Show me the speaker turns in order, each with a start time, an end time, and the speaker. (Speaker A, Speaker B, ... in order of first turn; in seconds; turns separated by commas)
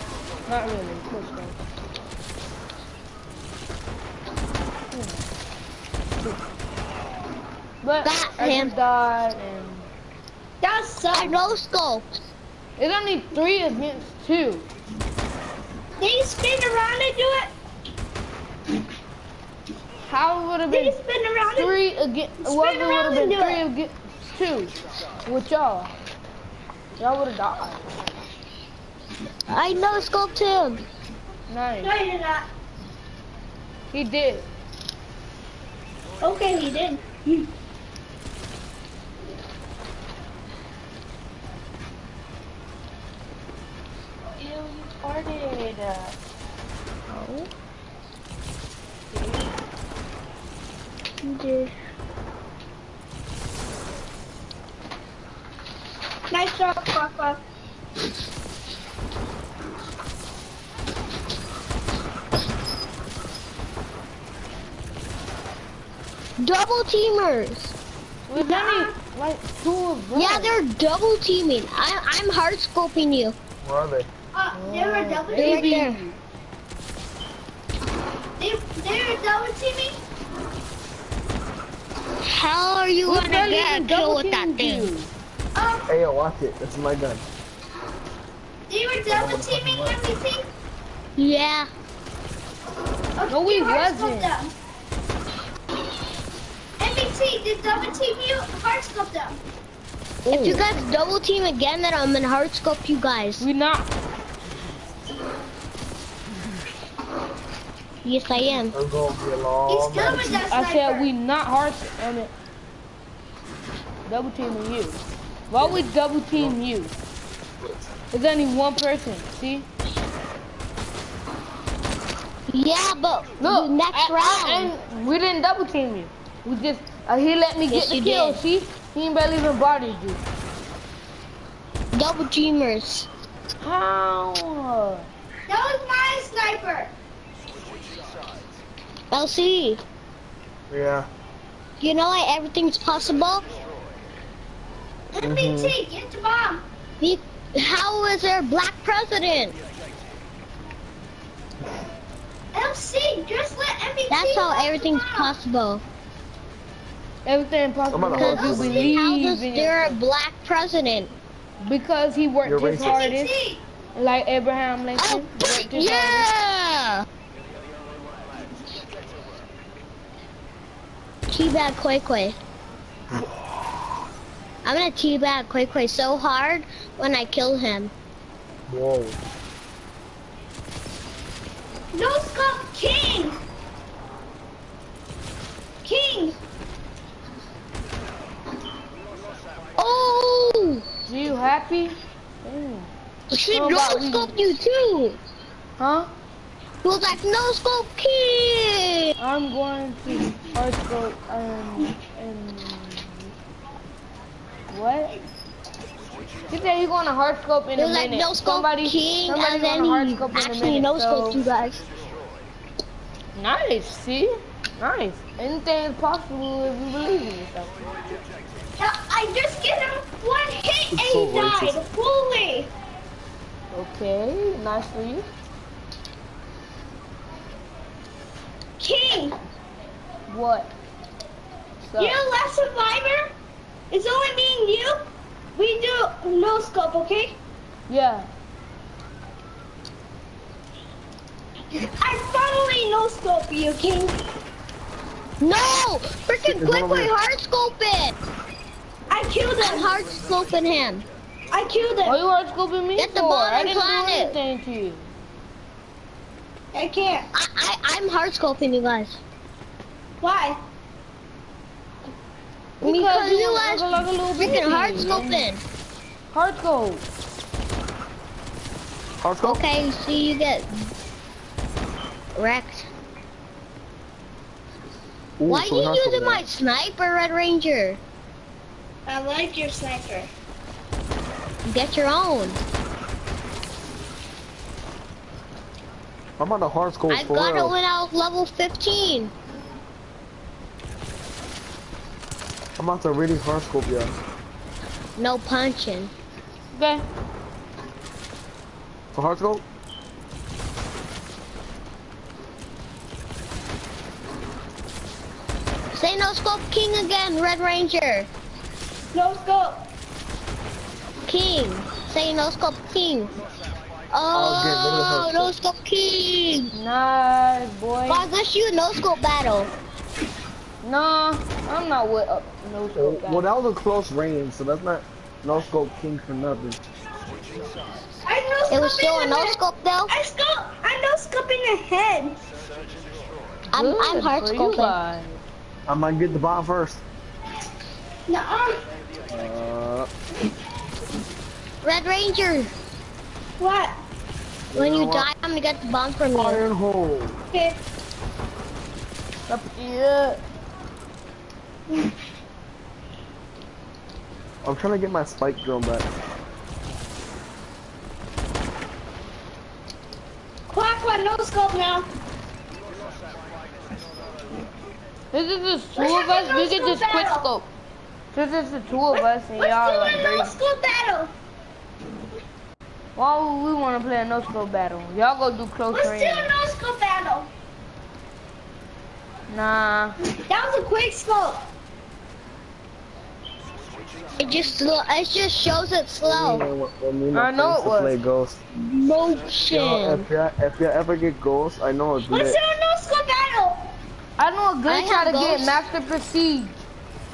Speaker A: 0.5-1.6, Speaker A: 4.9-5.2, Speaker A: 7.8-9.9, Speaker B: 8.0-8.7, Speaker C: 10.6-11.5, Speaker B: 11.1-12.1, Speaker A: 12.8-14.7, Speaker C: 16.0-17.5, Speaker A: 20.0-20.9, Speaker C: 20.7-21.7, Speaker A: 21.5-24.7, Speaker C: 22.4-23.6, Speaker A: 25.2-25.9, Speaker A: 27.0-27.9, Speaker B: 29.5-30.8, Speaker A: 31.5-31.9, Speaker C: 31.8-32.5, Speaker A: 33.9-34.5, Speaker C: 36.2-37.5, Speaker A: 44.4-46.1, Speaker A: 47.1-47.5, Speaker A: 49.1-49.4, Speaker B: 51.3-51.5, Speaker C: 56.3-57.4, Speaker B: 66.4-67.7, Speaker A: 68.3-70.6, Speaker C: 68.3-68.9, Speaker B: 70.1-73.3, Speaker D: 73.6-74.1, Speaker C: 74.3-75.8, Speaker A: 74.5-76.2, Speaker B: 75.3-76.0, Speaker C: 78.4-80.0, Speaker B: 82.3-84.9, Speaker A: 83.0-85.1, Speaker C: 85.5-85.9, Speaker D: 85.9-87.2, Speaker C: 88.7-90.5, Speaker D: 89.1-90.0, Speaker B: 91.2-91.7, Speaker C: 93.2-94.5, Speaker A: 93.3-94.3, Speaker C: 96.8-99.4, Speaker B: 100.3-103.5, Speaker A: 100.3-100.6, Speaker A: 103.4-103.9, Speaker B: 108.0-108.8, Speaker D: 108.7-110.4, Speaker C: 109.7-111.1, Speaker A: 110.5-112.3, Speaker A: 114.0-116.9, Speaker D: 115.5-116.6, Speaker A: 118.1-119.7, Speaker B: 122.5-124.7, Speaker A: 123.4-130.2, Speaker B: 127.7-128.4, Speaker B: 131.9-133.1, Speaker A: 133.6-135.1, Speaker C: 135.5-136.9, Speaker B: 139.1-139.8, Speaker D: 140.7-141.1, Speaker B: 141.8-143.4, Speaker C: 145.1-146.6, Speaker D: 145.2-145.7, Speaker B: 147.0-149.5, Speaker C: 152.5-155.3, Speaker B: 154.1-155.8, Speaker A: 157.2-160.0, Speaker D: 157.9-159.0, Speaker B: 158.1-161.1, Speaker A: 161.6-163.3, Speaker D: 162.4-163.0, Speaker C: 162.8-163.6, Speaker A: 163.9-166.3, Speaker B: 165.0-167.0, Speaker B: 171.3-172.4, Speaker B: 174.6-177.9, Speaker D: 178.7-179.2, Speaker C: 181.9-183.4, Speaker C: 185.8-186.4, Speaker B: 189.8-190.8, Speaker A: 191.1-192.9, Speaker B: 193.3-195.2, Speaker A: 193.5-194.5, Speaker A: 195.8-196.1, Speaker B: 196.8-199.1, Speaker A: 199.2-203.3, Speaker A: 204.7-205.2, Speaker A: 206.5-211.4, Speaker B: 207.8-211.8, Speaker A: 213.3-217.8, Speaker C: 218.8-222.7, Speaker D: 220.9-221.8, Speaker A: 223.7-225.2, Speaker C: 228.8-229.4, Speaker A: 230.3-230.7, Speaker A: 231.8-232.2, Speaker C: 232.0-233.3, Speaker C: 233.9-235.0, Speaker C: 235.5-237.4, Speaker A: 237.9-238.3, Speaker C: 242.0-244.2, Speaker B: 245.4-248.1, Speaker D: 246.4-247.1, Speaker C: 249.1-249.9, Speaker B: 249.6-251.1, Speaker C: 251.5-252.2, Speaker A: 252.0-255.1, Speaker B: 253.0-254.4, Speaker C: 256.7-257.3, Speaker B: 257.3-259.2, Speaker C: 260.2-260.6, Speaker A: 262.8-265.5, Speaker B: 262.8-265.6, Speaker A: 266.3-267.1, Speaker D: 269.2-269.6, Speaker B: 269.4-270.7, Speaker B: 272.3-272.9, Speaker D: 275.4-276.4, Speaker B: 275.5-278.0, Speaker C: 279.1-280.3, Speaker B: 281.6-282.6, Speaker D: 286.4-287.7, Speaker B: 287.1-289.3, Speaker D: 292.8-294.1, Speaker B: 295.2-296.1, Speaker A: 296.7-297.0, Speaker D: 299.1-299.6, Speaker B: 305.9-308.3, Speaker C: 309.1-309.8, Speaker B: 311.3-313.3, Speaker B: 314.1-316.7, Speaker D: 314.3-315.5, Speaker A: 316.7-318.2, Speaker B: 318.1-319.7, Speaker A: 320.8-323.5, Speaker D: 322.9-326.8, Speaker C: 328.2-332.4, Speaker B: 328.7-330.1, Speaker B: 333.7-335.0, Speaker A: 333.7-335.4, Speaker D: 335.9-337.0, Speaker C: 338.3-338.8, Speaker D: 339.3-340.1, Speaker B: 341.8-342.7, Speaker C: 343.6-343.9, Speaker D: 344.7-345.3, Speaker B: 344.7-346.6, Speaker D: 346.3-347.4, Speaker C: 347.5-347.8, Speaker A: 349.5-350.4, Speaker D: 354.6-356.1, Speaker C: 360.7-362.1, Speaker A: 365.3-367.7, Speaker C: 366.0-367.5, Speaker A: 368.3-370.6, Speaker C: 369.1-371.3, Speaker A: 373.1-376.5, Speaker C: 375.9-377.5, Speaker A: 379.5-380.1, Speaker C: 380.5-381.6, Speaker B: 384.4-386.7, Speaker D: 386.2-388.6, Speaker A: 387.3-388.2, Speaker B: 388.8-390.3, Speaker D: 389.7-392.6, Speaker C: 392.3-393.8, Speaker A: 394.4-396.8, Speaker B: 394.9-395.8